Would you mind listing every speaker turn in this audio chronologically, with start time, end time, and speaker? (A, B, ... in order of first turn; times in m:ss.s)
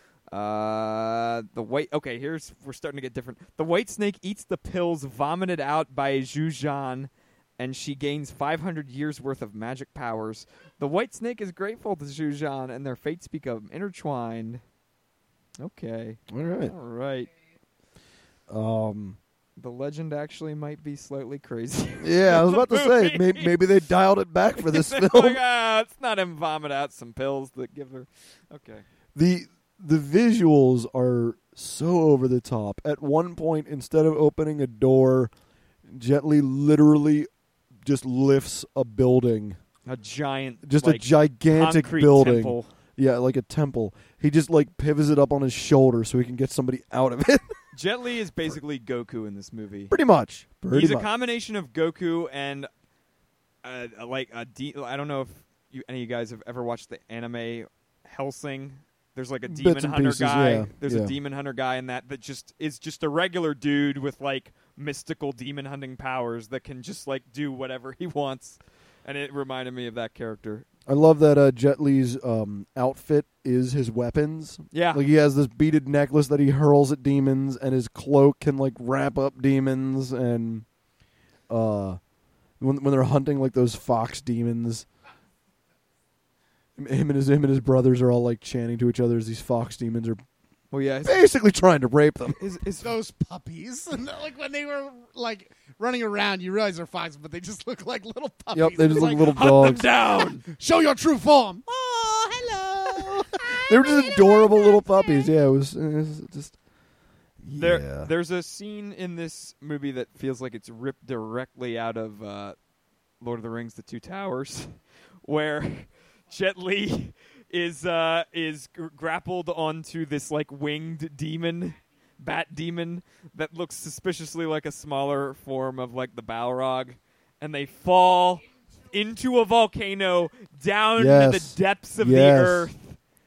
0:00.3-0:14.6 A
0:15.6-0:17.3 A
0:16.3-0:16.7 B
0:18.5-0:19.2 B
0:19.6-0:23.6 A
0:22.0-0:25.4 B
0:24.6-0:28.8 A
0:29.1-0:35.3 B
0:35.9-0:37.3 B
0:37.8-0:39.6 B
0:39.8-0:42.7 A
0:40.6-0:47.6 B
0:47.7-0:49.9 A
0:49.9-0:51.1 B
0:50.7-0:52.7 A
0:53.6-1:10.6 A
0:59.5-1:01.1 B
1:10.9-1:20.6 B
1:14.7-1:15.0 A
1:21.5-1:22.0 B
1:22.6-1:24.8 B
1:26.8-1:30.2 B
1:30.7-1:31.2 A
1:31.0-1:32.4 B
1:32.4-1:32.9 A
1:32.8-1:45.3 C
1:38.5-1:39.8 B
1:39.2-1:40.4 A
1:43.0-1:46.6 B
1:47.4-1:48.1 B
1:47.6-1:52.6 A
1:53.2-2:13.0 A
2:11.0-2:12.7 B